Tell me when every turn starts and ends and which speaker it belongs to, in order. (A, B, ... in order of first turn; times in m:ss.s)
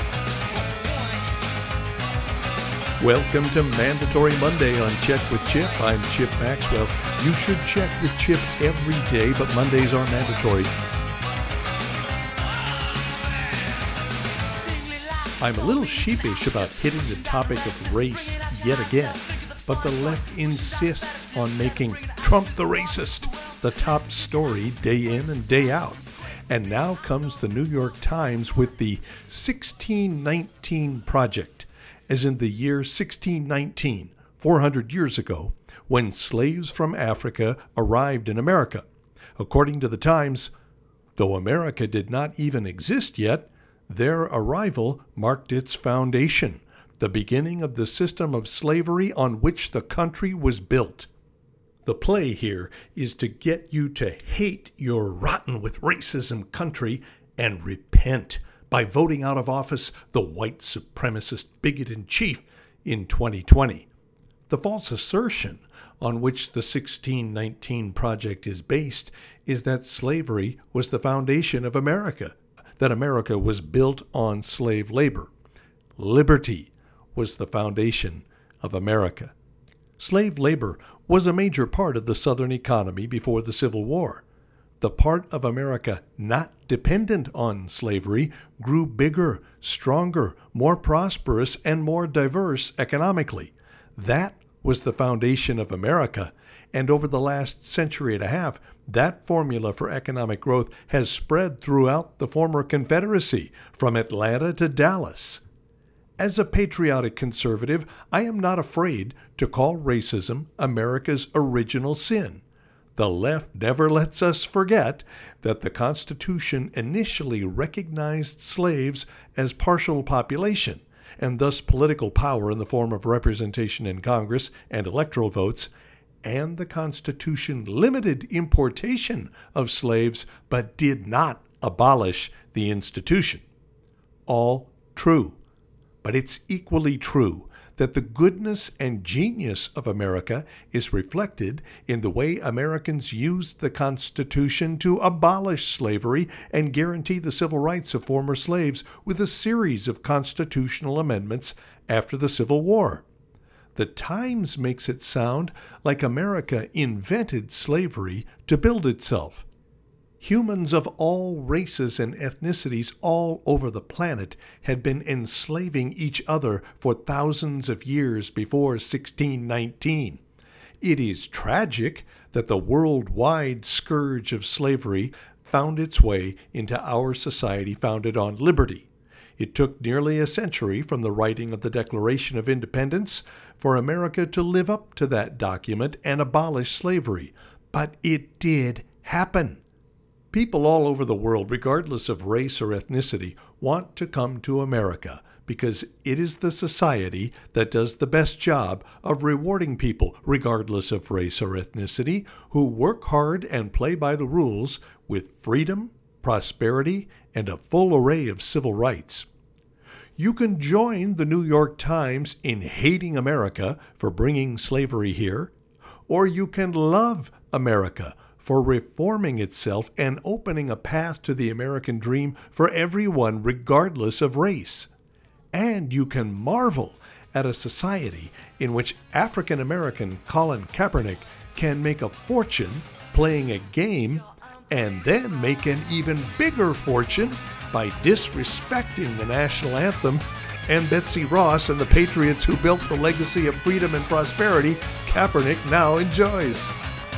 0:03.0-0:10.7 A
0:15.4-0:38.8 A
0:39.4-0:40.5 A
0:41.2-0:51.1 A
0:51.8-1:03.9 A
1:04.5-1:15.3 A
1:16.0-1:19.3 A
1:20.0-1:24.2 A
1:24.8-1:45.4 A
1:46.2-1:52.4 A
1:53.0-2:05.7 A
2:06.2-2:13.4 A
2:14.3-2:15.4 A
2:16.0-2:33.0 A
2:33.7-2:39.4 A
2:40.2-2:50.2 A
2:50.8-3:09.6 A
3:10.3-3:29.3 A
3:30.2-3:35.5 A
3:36.1-3:44.9 A
3:45.5-4:06.7 A